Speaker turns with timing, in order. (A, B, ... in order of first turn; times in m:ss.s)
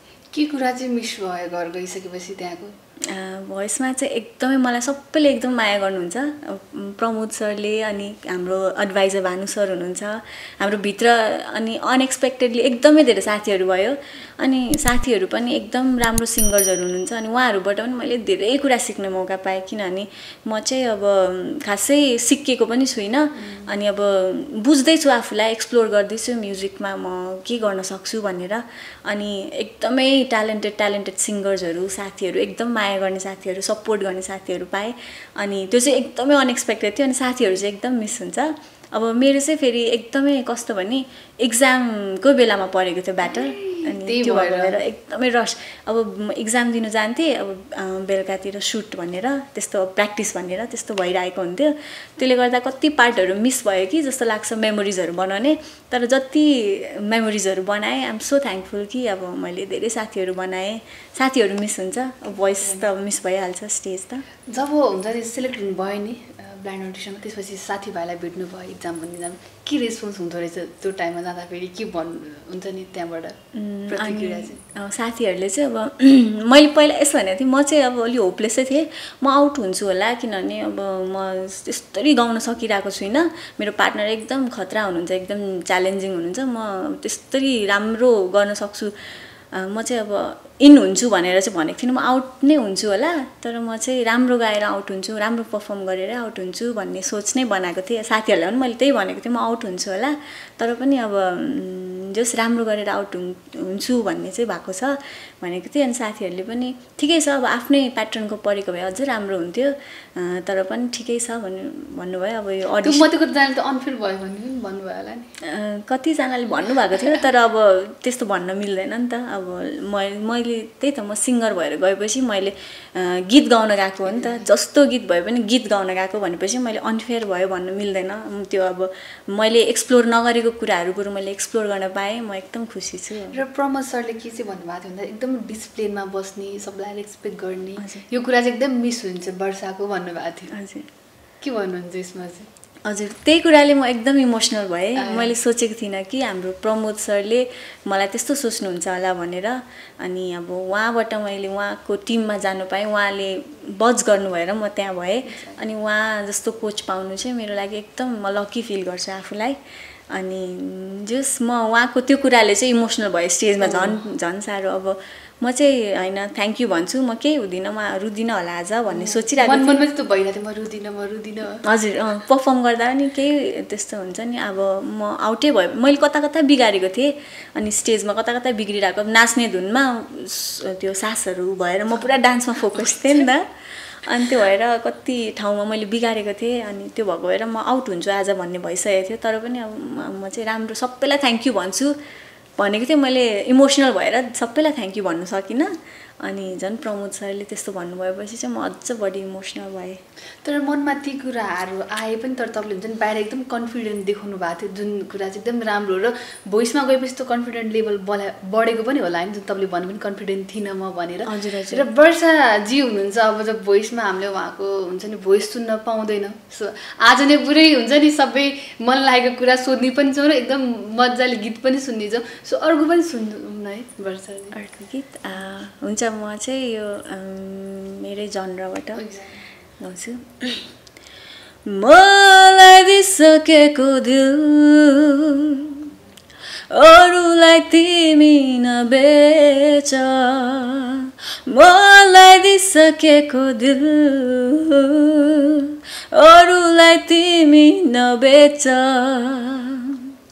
0:00.3-0:02.8 A
0:03.1-1:04.2 B
0:23.4-0:23.7 A
0:43.2-0:44.8 A
1:02.5-1:02.8 A
1:04.5-1:13.4 A
1:13.5-1:28.9 B
1:13.9-1:14.6 A
1:29.5-1:53.1 B
1:52.8-1:55.3 A
1:55.4-2:13.4 B
2:04.1-2:04.4 A
2:13.3-2:20.5 A
2:17.8-2:18.0 B
2:20.5-2:20.9 B
2:21.4-2:22.5 A
2:22.9-2:39.6 B
2:25.0-2:25.4 A
2:40.1-2:49.8 B
2:43.6-2:44.0 A
2:48.9-2:51.6 A
2:51.6-3:03.5 B
3:02.8-3:03.3 A
3:04.0-3:12.0 B
3:12.6-3:20.0 B
3:20.4-3:44.6 A
3:31.3-3:31.9 B
3:44.5-3:49.0 B
3:49.0-3:49.4 A
3:49.8-3:50.7 B
3:51.7-3:55.9 B
3:56.7-4:10.1 B